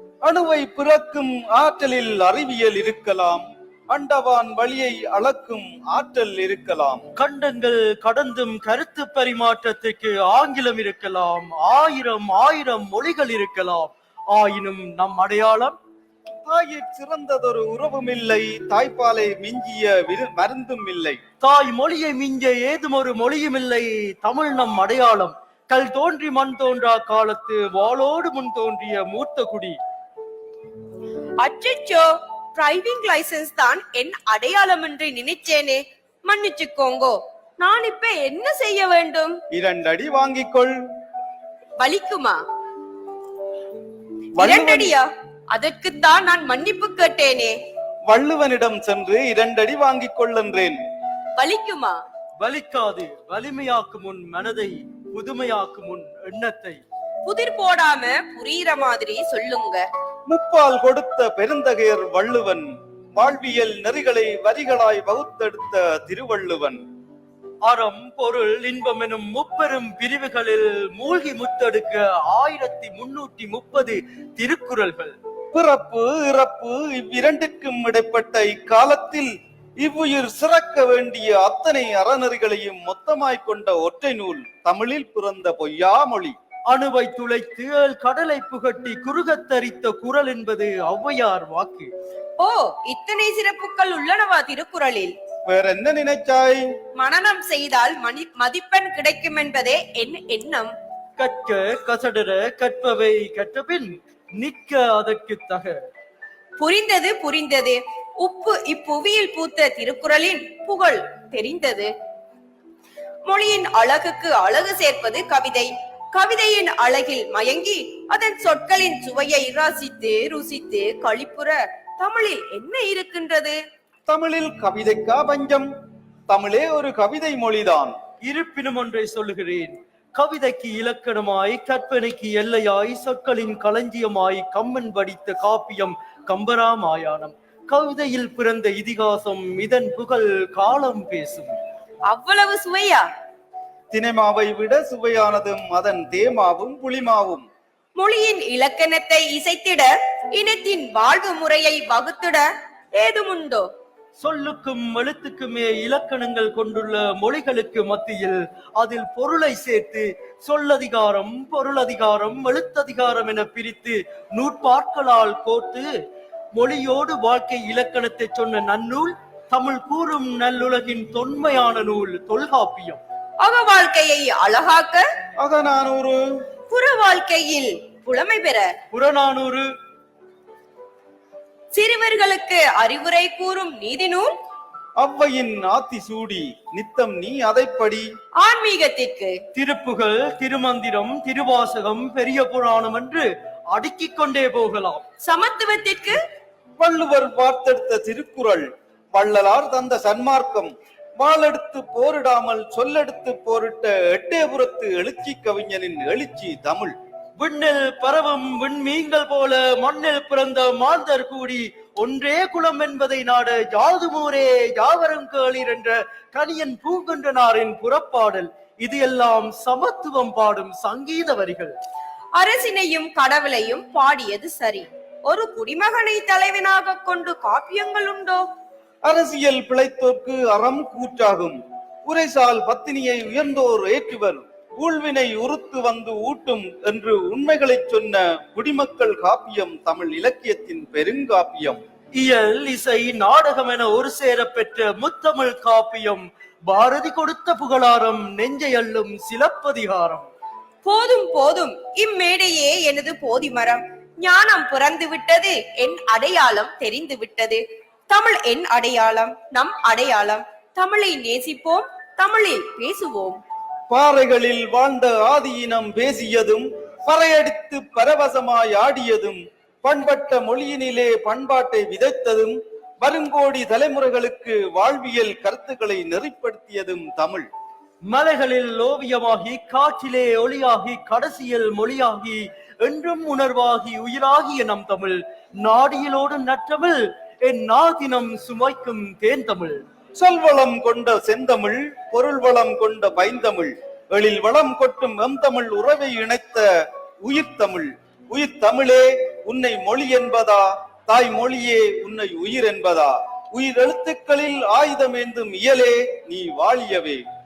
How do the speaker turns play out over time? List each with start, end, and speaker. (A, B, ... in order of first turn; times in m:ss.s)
0:00.2-0:07.0 A
0:07.2-0:15.8 B
0:16.5-0:21.2 A
0:21.4-0:29.8 B
0:31.4-0:39.4 C
0:39.5-0:40.7 A
0:41.8-0:42.4 C
0:44.4-0:45.0 A
0:44.4-0:47.6 C
0:48.1-0:50.8 A
0:51.4-0:52.0 C
0:52.4-0:56.8 B
0:57.2-0:59.9 C
1:00.3-1:06.8 A
1:07.6-1:15.1 B
1:15.5-1:19.3 A
1:19.8-1:26.4 A
1:26.7-1:31.9 B
1:32.4-1:35.1 C
1:35.5-1:36.6 A
1:37.0-1:40.7 C
1:41.2-1:45.7 B
1:46.6-1:51.9 C
1:53.3-2:03.6 C
2:04.1-2:05.7 A
2:06.3-2:07.9 A
2:08.2-2:21.5 B
2:22.1-2:23.1 C
2:23.9-2:27.5 A
2:28.0-2:33.7 C
2:34.2-2:45.8 B
2:46.6-2:53.0 B
2:53.4-2:55.1 C
2:55.4-2:56.2 A
2:56.7-2:58.7 C
2:58.9-2:59.6 B
3:01.7-3:04.3 C
3:05.0-3:08.1 A
3:08.4-3:09.4 C
3:09.5-3:15.0 B
3:15.2-3:16.2 C
3:16.8-3:18.6 A
3:19.2-3:26.9 A
3:27.4-3:41.7 B
3:42.4-3:48.5 C
3:49.0-4:01.8 A
4:02.2-4:10.3 B
4:10.8-4:23.4 C
4:23.9-4:37.5 A
4:38.1-4:49.8 B
4:50.2-4:56.6 A
4:57.2-5:07.2 A